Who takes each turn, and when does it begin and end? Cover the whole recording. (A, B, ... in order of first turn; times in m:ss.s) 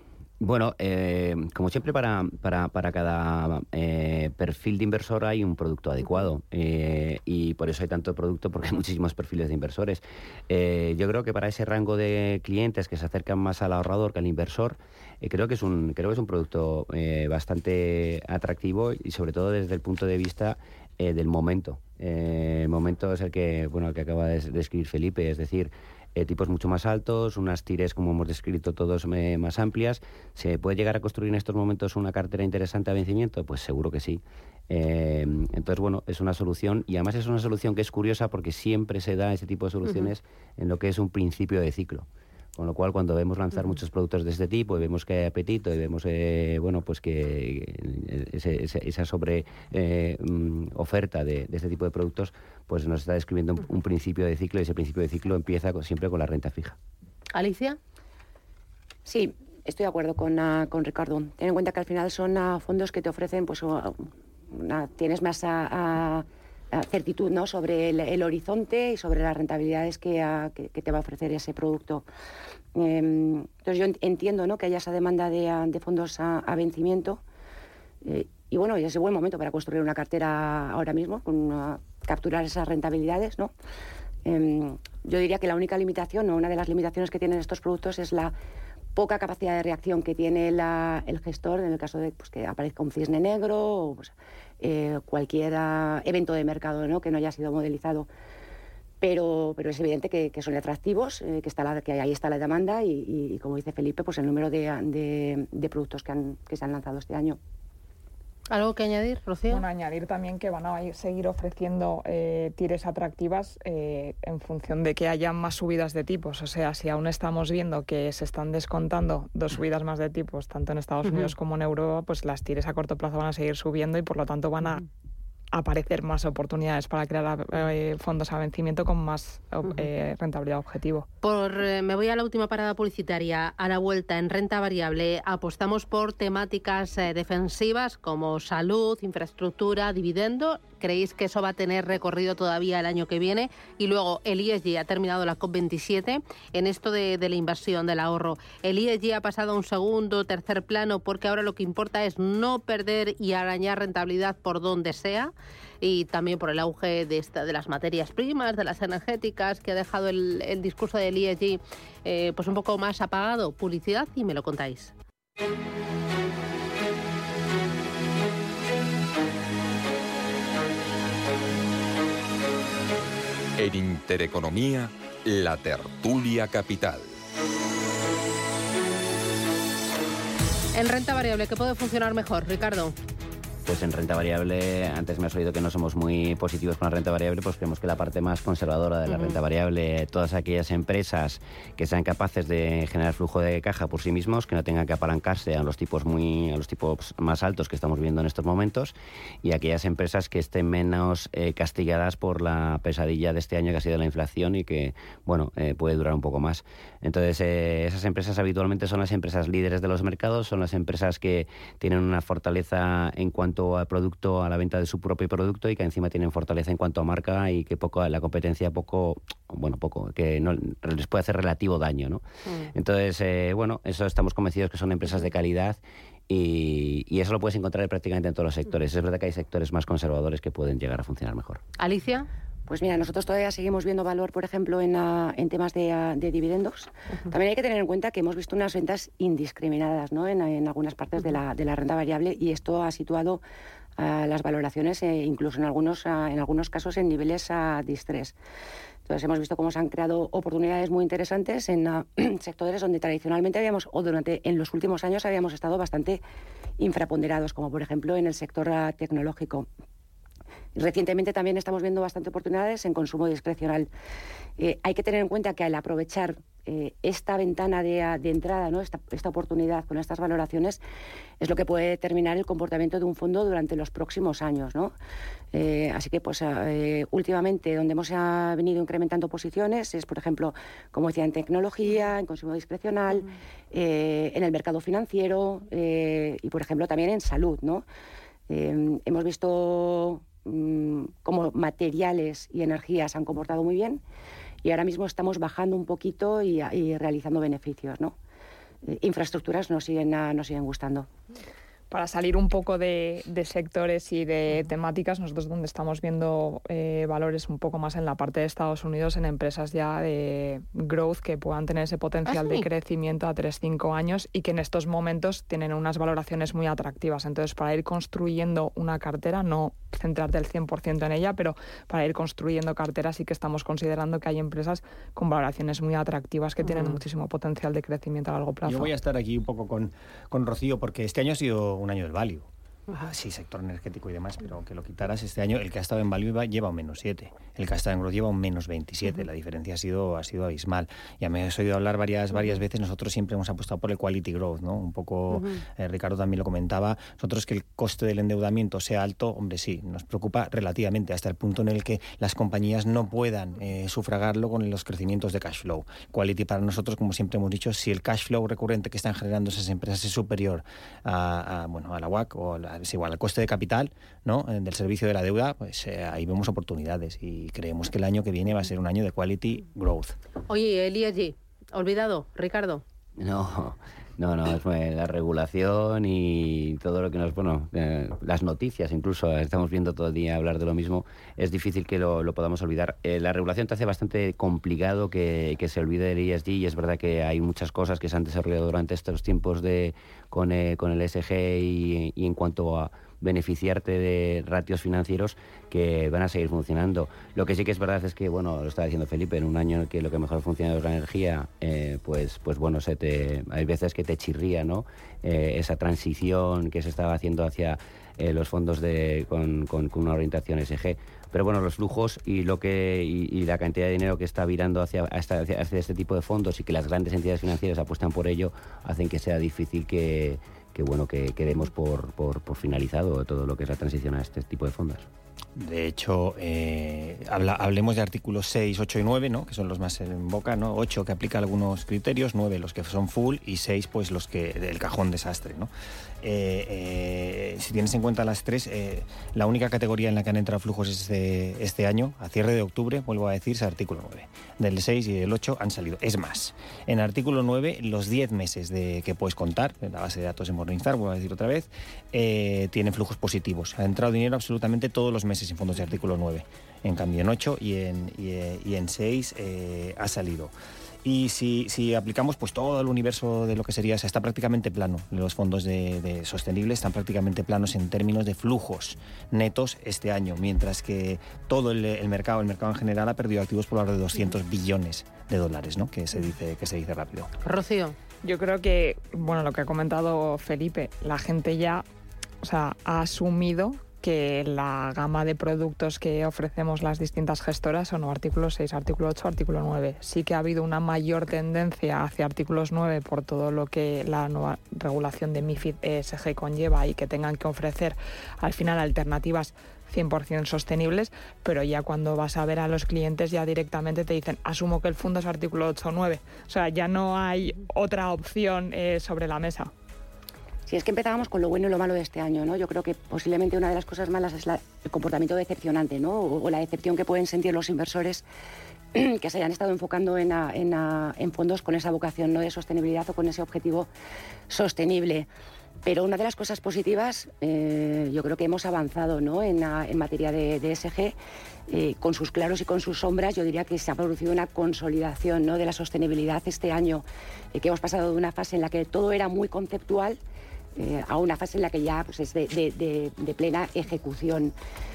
0:00.4-0:56.8 A
0:57.3-0:57.8 B
0:59.1-1:12.0 C
1:12.8-1:17.2 C
1:18.0-1:23.5 C
1:24.2-1:28.3 C
1:29.0-1:38.1 C
1:39.0-1:47.4 C
1:48.5-1:49.6 B
1:49.5-2:04.9 D
2:05.5-2:11.1 D
2:11.2-2:44.9 B
2:53.6-2:57.2 E
3:00.7-3:03.0 B
3:03.7-3:42.2 A
3:09.1-3:09.4 B
3:42.5-3:42.7 B
3:42.7-3:51.6 A
3:51.8-3:52.3 B
3:52.7-4:03.4 C
4:04.0-4:08.4 C
4:09.1-4:16.2 C
4:16.8-4:19.7 C
4:20.8-4:23.9 C
4:24.6-4:30.8 C
4:31.4-4:34.9 C
4:35.5-4:47.8 C
4:48.5-4:54.0 C
4:54.6-4:58.2 C
4:58.8-5:01.1 C
5:01.9-5:28.9 D
5:12.3-5:12.7 B
5:26.6-5:27.0 B
5:28.7-5:32.5 F
5:33.0-6:10.2 F
5:45.3-5:45.6 B
6:10.5-6:12.8 B
6:13.2-7:05.1 A
7:05.6-7:15.7 F
7:16.2-7:40.5 F
7:41.0-7:57.3 F
7:57.4-7:58.0 B
7:58.2-8:01.8 D
8:02.4-8:29.7 D
8:30.7-8:38.2 C
8:38.9-8:43.9 C
8:44.5-8:45.3 C
8:45.8-8:51.2 C
8:51.7-9:00.2 C
9:00.8-9:04.5 C